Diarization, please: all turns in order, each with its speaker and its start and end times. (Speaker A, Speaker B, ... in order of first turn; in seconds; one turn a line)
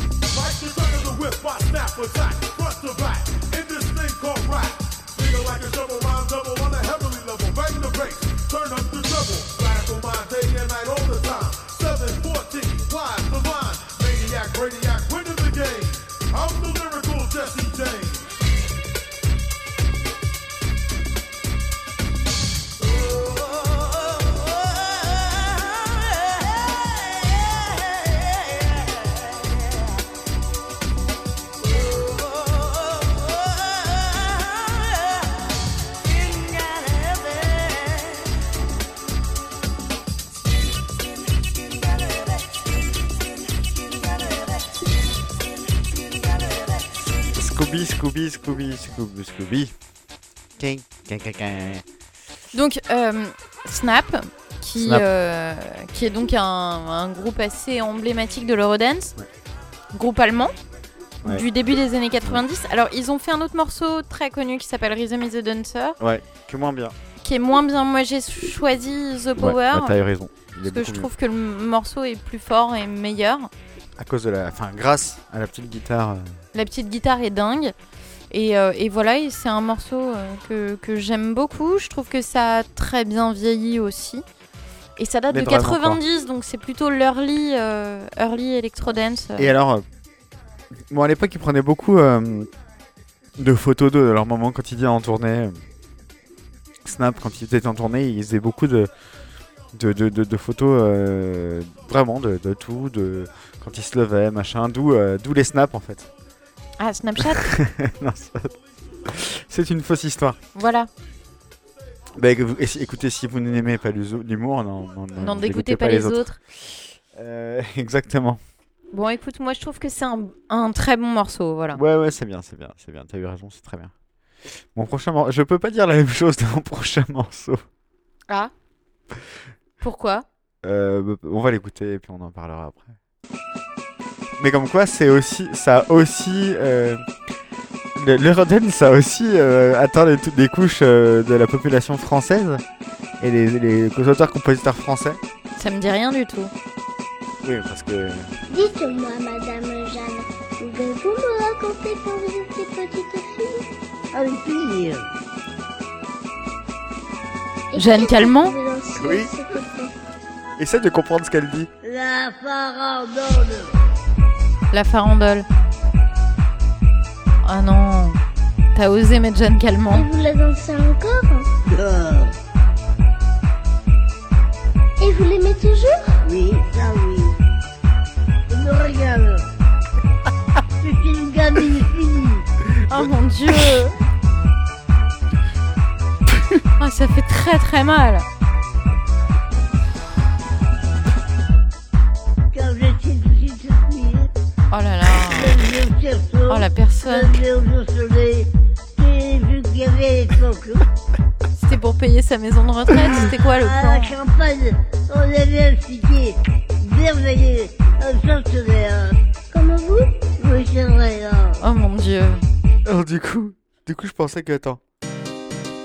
Speaker A: 0.3-18.2
Speaker B: 47.3-49.7
Speaker B: 50.6-51.8
Speaker C: 52.5-59.1
Speaker B: 54.8-55.0
Speaker C: 59.9-60.5
Speaker C: 61.2-66.0
Speaker B: 66.0-67.0
Speaker C: 67.2-70.0
Speaker B: 69.4-71.1
Speaker C: 70.7-73.5
Speaker B: 74.0-76.4
Speaker C: 76.5-77.7
Speaker C: 78.3-84.2
Speaker C: 85.0-89.5
Speaker B: 85.3-86.0
Speaker B: 89.4-89.8
Speaker B: 90.9-92.5
Speaker B: 93.4-95.6
Speaker B: 96.8-98.9
Speaker B: 99.7-106.1
Speaker C: 106.8-107.5
Speaker B: 107.2-108.5
Speaker B: 109.0-110.4
Speaker C: 110.5-110.9
Speaker B: 112.2-118.4
Speaker C: 115.2-116.4
Speaker C: 118.9-121.8
Speaker B: 121.7-123.9
Speaker B: 124.8-127.6
Speaker C: 129.8-130.3
Speaker B: 130.6-133.0
Speaker B: 134.4-137.0
Speaker B: 137.9-142.6
Speaker B: 143.2-145.2
Speaker C: 145.6-146.5
Speaker B: 147.4-148.3
Speaker D: 148.5-153.7
Speaker E: 154.1-155.0
Speaker D: 157.7-159.9
Speaker C: 157.8-158.6
Speaker B: 158.9-159.3
Speaker B: 160.6-161.7
Speaker E: 161.8-163.7
Speaker C: 164.7-165.5
Speaker C: 167.4-168.2
Speaker C: 168.8-170.1
Speaker D: 169.9-171.5
Speaker E: 171.7-172.3
Speaker D: 175.0-176.2
Speaker E: 176.2-177.3
Speaker E: 178.5-179.4
Speaker E: 180.8-182.4
Speaker C: 182.9-183.9
Speaker C: 186.8-188.3
Speaker E: 192.5-194.3
Speaker C: 194.7-195.6
Speaker E: 195.3-200.8
Speaker C: 196.5-197.4
Speaker C: 201.6-204.2
Speaker E: 203.6-209.1
Speaker D: 209.5-210.3
Speaker E: 210.3-211.6
Speaker C: 211.6-212.4
Speaker B: 212.8-214.8